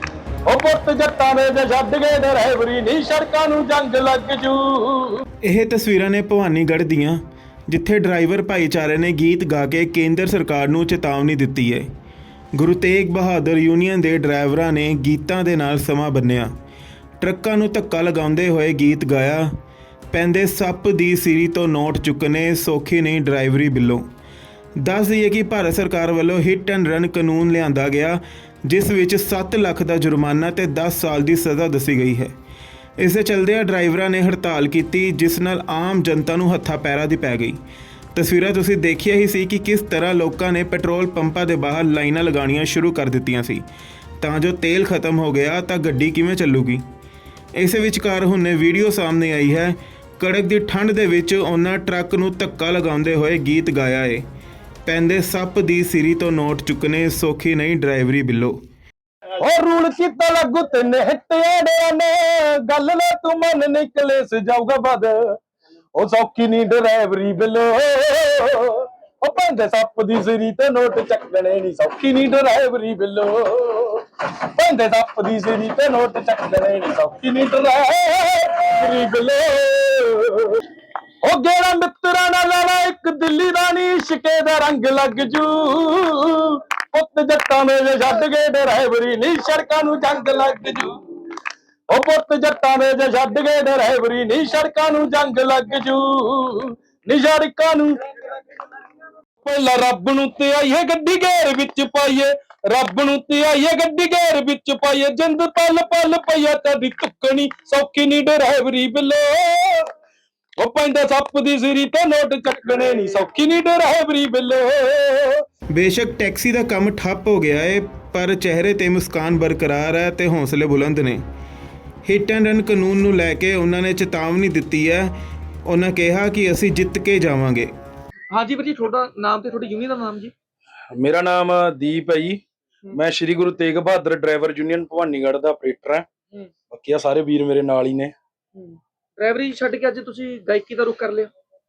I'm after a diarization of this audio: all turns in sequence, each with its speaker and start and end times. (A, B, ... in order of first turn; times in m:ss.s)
0:00.4-0:05.2 A
0:05.4-0:11.9 B
0:12.6-0:16.5 B
0:17.2-0:19.5 B
0:20.1-0:24.0 B
0:24.8-0:32.4 B
0:33.0-0:37.6 B
0:38.2-0:43.6 B
0:44.2-0:46.8 B
0:47.6-0:54.2 B
0:54.9-0:58.6 B
0:59.4-1:05.4 A
1:06.0-1:20.6 A
1:21.2-1:31.0 A
1:31.9-1:38.0 A
1:39.4-1:49.9 A
1:50.6-1:55.4 A
1:55.7-2:01.2 B
2:02.0-2:05.1 B
2:05.7-2:07.7 B
2:08.3-2:10.3 C
2:10.9-2:12.4 A
2:12.9-2:16.1 A
2:16.7-2:18.1 A
2:18.6-2:21.3 C